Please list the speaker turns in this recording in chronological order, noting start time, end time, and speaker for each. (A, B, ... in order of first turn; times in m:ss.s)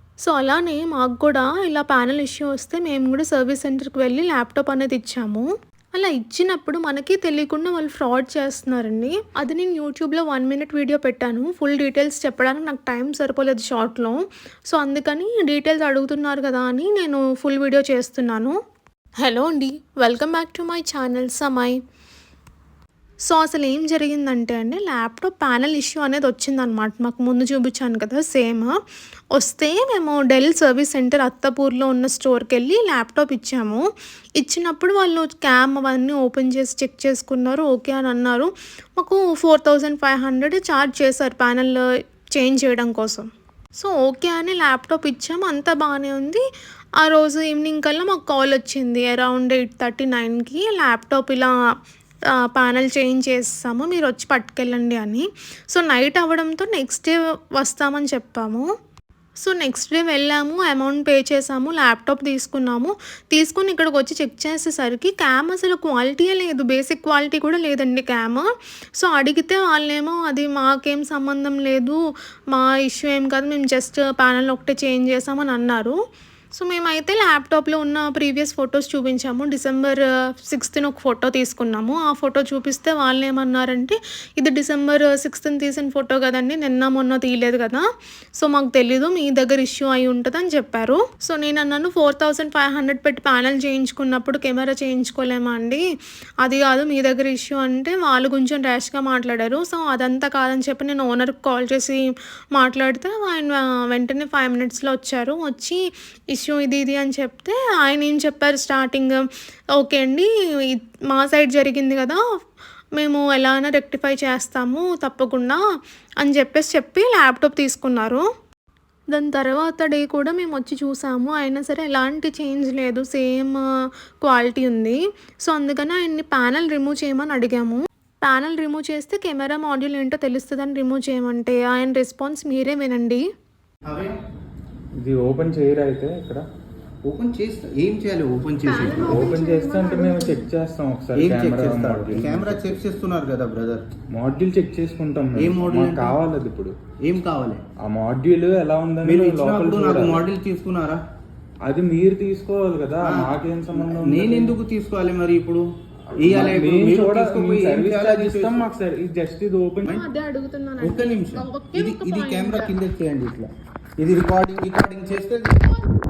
0:00.2-0:18.5 A
0:19.2-0:21.8 A
0:23.3-0:28.7 A
0:29.3-0:33.8 A
0:34.4-0:46.4 A
0:47.0-0:51.5 A
0:52.5-0:58.6 A
0:59.4-1:12.0 A
1:12.5-1:16.0 A
1:16.5-1:27.8 A
1:28.4-1:35.8 A
1:36.4-1:42.0 A
1:42.5-1:45.8 A
1:46.3-1:49.2 A
1:49.8-1:52.2 A
1:53.0-1:55.6 A
1:56.2-1:58.2 A
1:59.1-2:03.6 A
2:04.2-2:13.2 A
2:13.8-2:14.1 B
2:15.0-2:16.4 C
2:17.0-2:19.3 B
2:18.6-2:20.5 A
2:18.7-2:22.8 C
2:21.2-2:23.8 B
2:24.1-2:26.7 C
2:25.4-2:26.2 B
2:27.0-2:27.6 B
2:27.8-2:30.3 C
2:29.0-2:31.0 B
2:31.6-2:34.6 C
2:33.0-2:35.6 B
2:36.2-2:38.7 B
2:36.2-2:40.0 C
2:39.9-2:42.7 A
2:40.8-2:43.5 B
2:44.0-2:45.6 B